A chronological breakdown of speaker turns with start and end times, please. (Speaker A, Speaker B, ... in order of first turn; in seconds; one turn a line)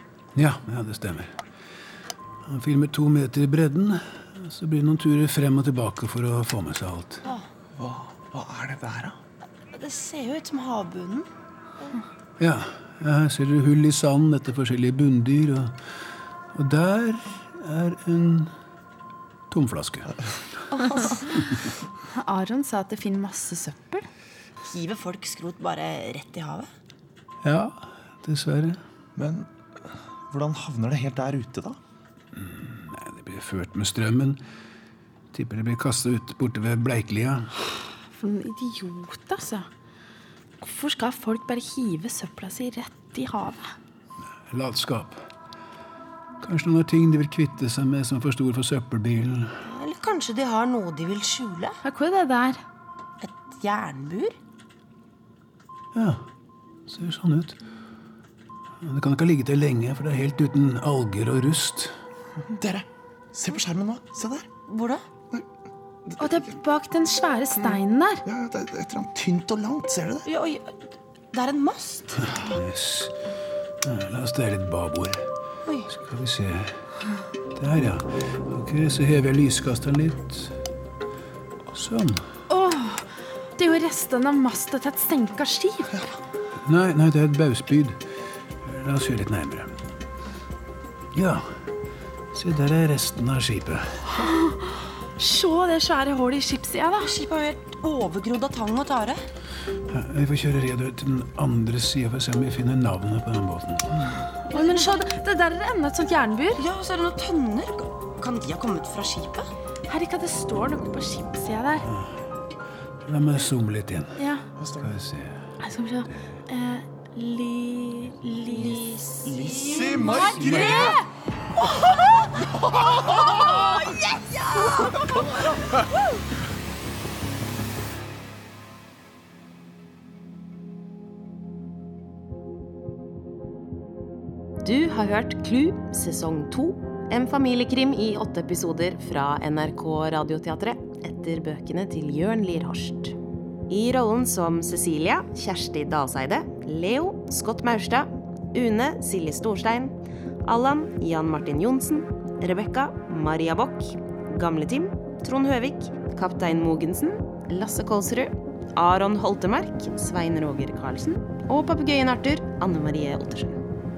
Speaker A: 0.3-1.4
Speaker A: 2.4-7.2
Speaker B: 8.3-9.1
Speaker C: 9.7-11.3
Speaker A: 12.4-15.8
Speaker A: 16.5-18.5
Speaker A: 19.5-20.1
Speaker C: 20.7-21.3
Speaker D: 22.1-24.0
Speaker C: 24.6-26.7
Speaker A: 27.4-28.8
Speaker B: 29.1-29.5
Speaker B: 30.3-31.8
Speaker A: 32.4-34.4
Speaker A: 35.3-37.5
Speaker D: 38.1-39.7
Speaker D: 40.6-43.7
Speaker A: 44.5-45.2
Speaker A: 46.4-49.5
Speaker C: 49.6-51.8
Speaker D: 51.8-52.6
Speaker C: 53.2-54.4
Speaker A: 55.9-56.2
Speaker A: 56.9-57.6
Speaker A: 58.8-61.9
Speaker B: 62.5-64.5
Speaker C: 64.7-65.0
Speaker B: 66.1-66.6
Speaker D: 66.2-68.2
Speaker B: 68.2-70.3
Speaker C: 70.2-70.7
Speaker C: 71.3-72.5
Speaker A: 72.3-73.1
Speaker A: 73.8-75.3
Speaker A: 75.9-76.8
Speaker A: 77.5-80.5
Speaker A: 81.7-82.2
Speaker D: 82.5-86.0
Speaker A: 86.7-88.0
Speaker A: 88.6-89.8
Speaker A: 91.1-91.6
Speaker A: 92.3-94.0
Speaker D: 94.1-97.1
Speaker C: 97.0-99.2
Speaker A: 99.9-104.1
Speaker D: 104.5-106.6
Speaker C: 104.5-105.0
Speaker C: 106.5-109.5
Speaker D: 109.9-111.8
Speaker A: 113.0-114.2
Speaker D: 114.2-114.4
Speaker B: 114.6-114.9
Speaker A: 114.8-115.4
Speaker D: 115.6-119.0
Speaker C: 118.5-120.5
Speaker B: 119.2-121.0
Speaker D: 119.9-121.0
Speaker A: 120.4-121.0
Speaker B: 122.6-123.8
Speaker C: 123.4-125.3
Speaker B: 124.9-125.6
Speaker E: 134.6-143.2
Speaker E: 143.7-163.6